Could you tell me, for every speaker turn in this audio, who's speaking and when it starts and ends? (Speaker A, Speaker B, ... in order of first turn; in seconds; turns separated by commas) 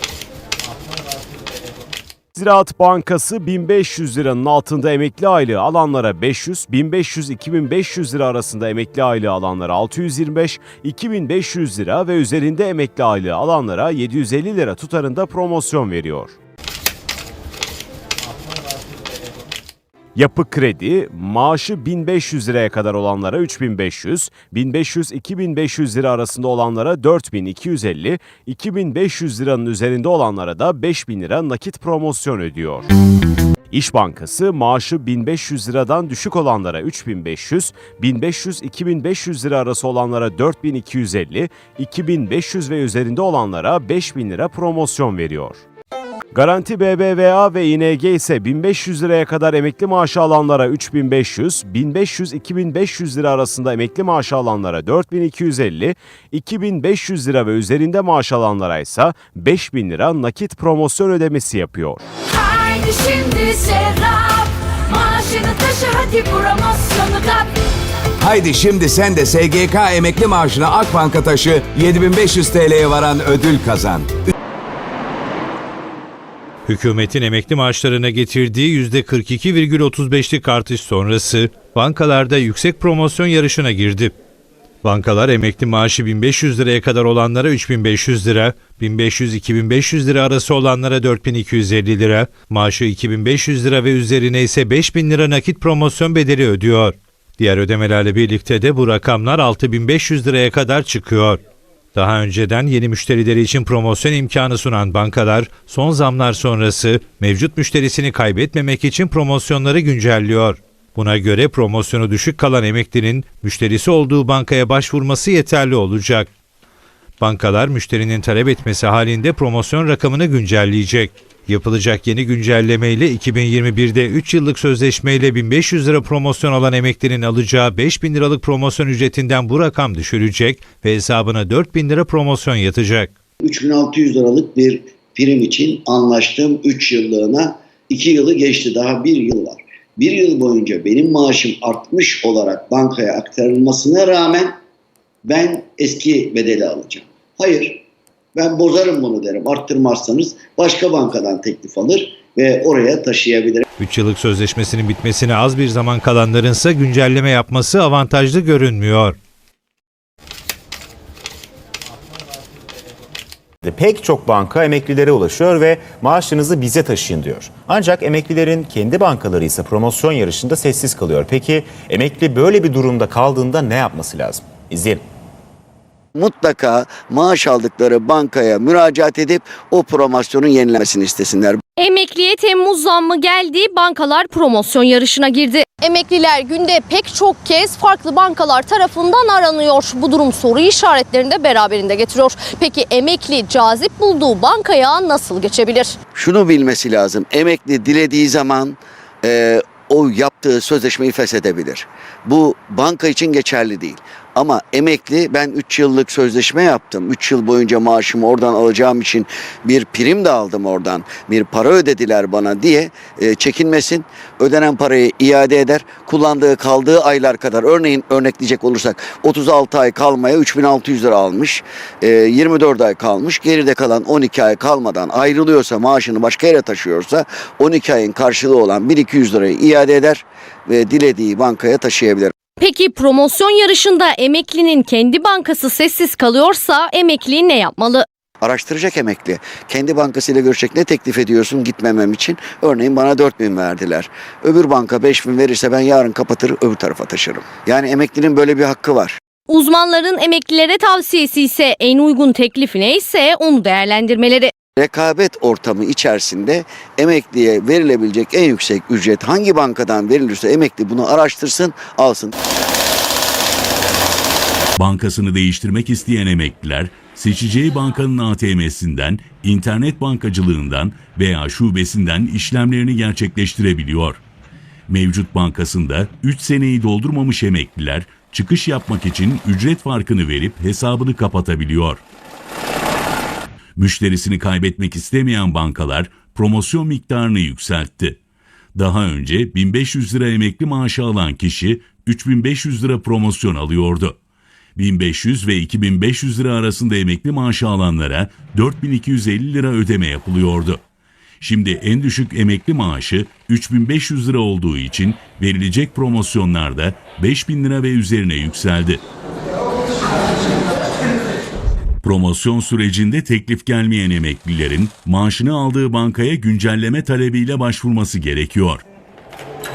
Speaker A: 2.3-16.4, Speaker A: 20.1-32.9, Speaker A: 33.7-45.6, Speaker A: 46.3-62.0, Speaker B: 62.3-67.5, Speaker C: 68.2-74.3, Speaker D: 76.7-84.1, Speaker D: 84.8-101.4, Speaker D: 101.9-116.3, Speaker D: 117.2-133.1, Speaker E: 133.4-144.6, Speaker E: 145.2-153.6, Speaker D: 153.8-159.2, Speaker F: 163.6-175.0, Speaker E: 176.1-181.6, Speaker G: 181.8-196.0, Speaker E: 196.2-232.3, Speaker G: 232.6-238.1, Speaker E: 238.4-249.2, Speaker G: 249.5-254.5, Speaker E: 254.8-262.3, Speaker H: 264.8-274.2, Speaker H: 274.9-282.0, Speaker H: 283.8-288.2, Speaker H: 288.8-294.2, Speaker H: 294.8-300.8, Speaker H: 301.4-309.0, Speaker H: 312.0-318.8